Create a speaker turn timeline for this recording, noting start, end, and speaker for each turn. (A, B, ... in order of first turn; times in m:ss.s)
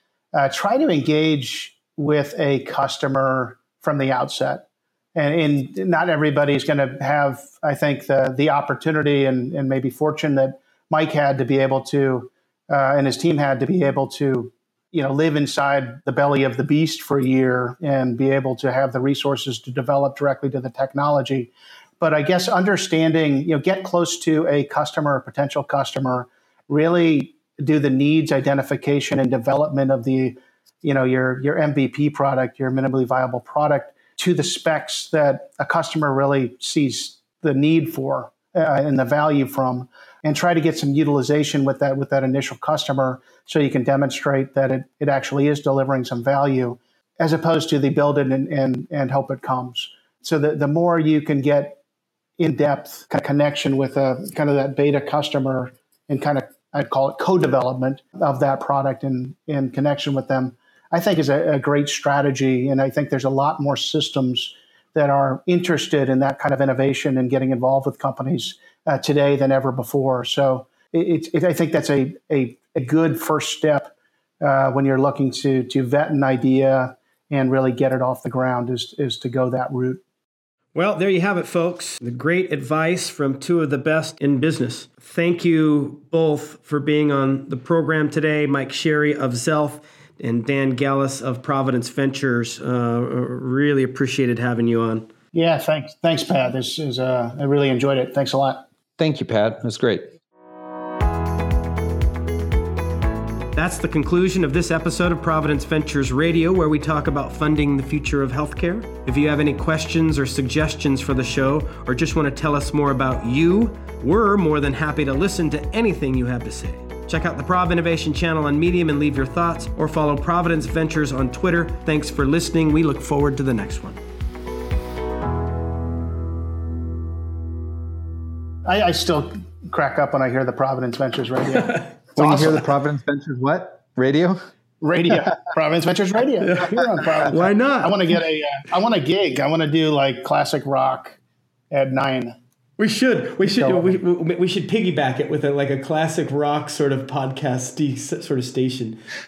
0:00.3-0:51.8 A
0:52.4-1:20.0 A
1:20.8-1:35.1 B
1:35.3-1:38.6 A
1:39.0-1:40.1 C
1:43.6-2:04.0 B
2:08.6-2:12.5 A
2:11.6-2:11.9 B
2:12.2-2:14.4 C
2:14.8-2:21.2 A
2:16.4-2:18.0 B
2:21.7-2:22.4 A
2:22.8-2:29.0 B